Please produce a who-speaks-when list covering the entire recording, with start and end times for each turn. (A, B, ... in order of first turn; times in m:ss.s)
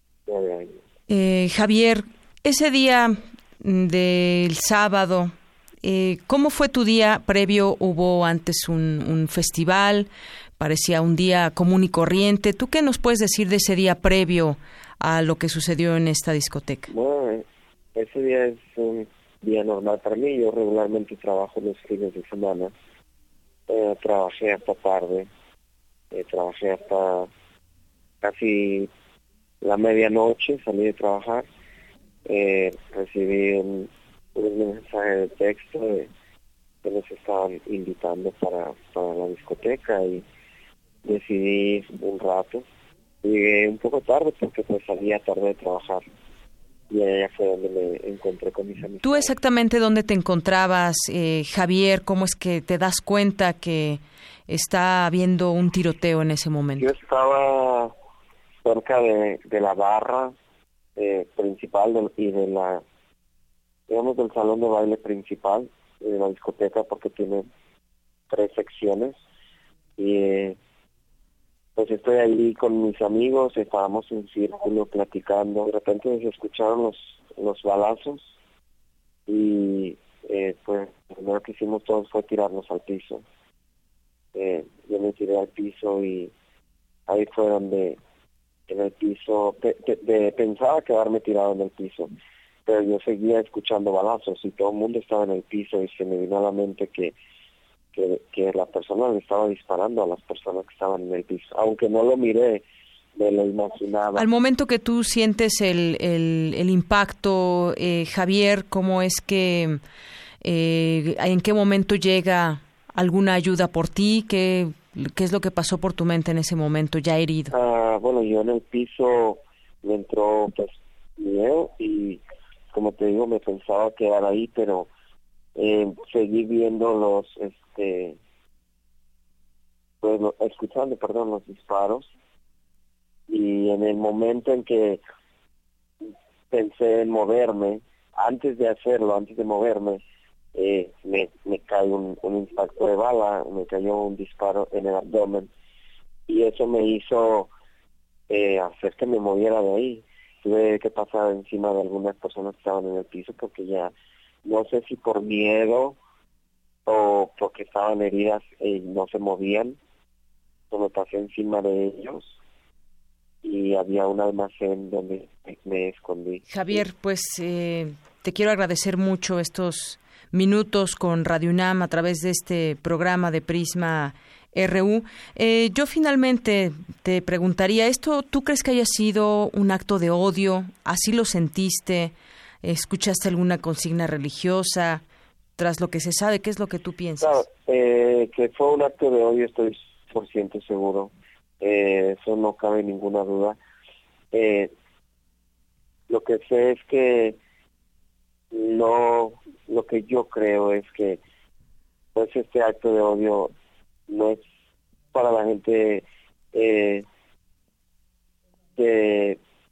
0:00.3-0:00.8 A
0:01.1-0:16.9 B
0:16.9-0:22.7 A
0:23.7-0:25.3 A
0:26.1-0:27.3 A
0:28.2-0:28.9 A
0:29.6-0:31.5 A
0:32.2-0:36.1 A
0:36.8-0:40.2 A
0:41.0-0:42.6 A
0:43.2-0:46.0 A
0:46.9-0:49.3 A
0:49.0-0:56.9 B
0:56.8-0:57.9 A
0:58.6-1:00.3 A
1:01.0-1:02.8 A
1:03.9-1:07.5 A
1:08.3-1:09.2 A
1:10.0-1:10.6 A
1:11.8-1:18.3 A
1:19.3-1:23.2 A
1:24.3-1:26.3 A
1:27.1-1:28.0 A
1:28.7-1:32.1 A
1:32.6-1:37.1 A
1:37.9-1:42.6 A
1:43.2-1:44.2 A
1:44.1-1:49.8 B
1:50.4-1:57.5 B
1:57.5-2:02.2 A
2:02.7-2:04.9 A
2:05.6-2:08.2 A
2:10.0-2:12.1 A
2:13.3-2:15.0 A
2:16.5-2:20.0 A
2:20.5-2:25.5 A
2:26.3-2:27.5 A
2:28.3-2:33.9 A
2:34.4-2:36.0 A
2:36.8-2:39.8 A
2:40.7-2:42.3 A
2:43.4-2:46.8 A
2:46.5-3:05.0 B
3:05.6-3:07.4 B
3:07.2-3:13.6 A
3:14.3-3:14.7 A
3:16.1-3:17.4 A
3:18.5-3:21.2 A
3:22.1-3:23.5 A
3:24.1-3:24.4 A
3:25.1-3:27.0 A
3:28.8-3:29.4 A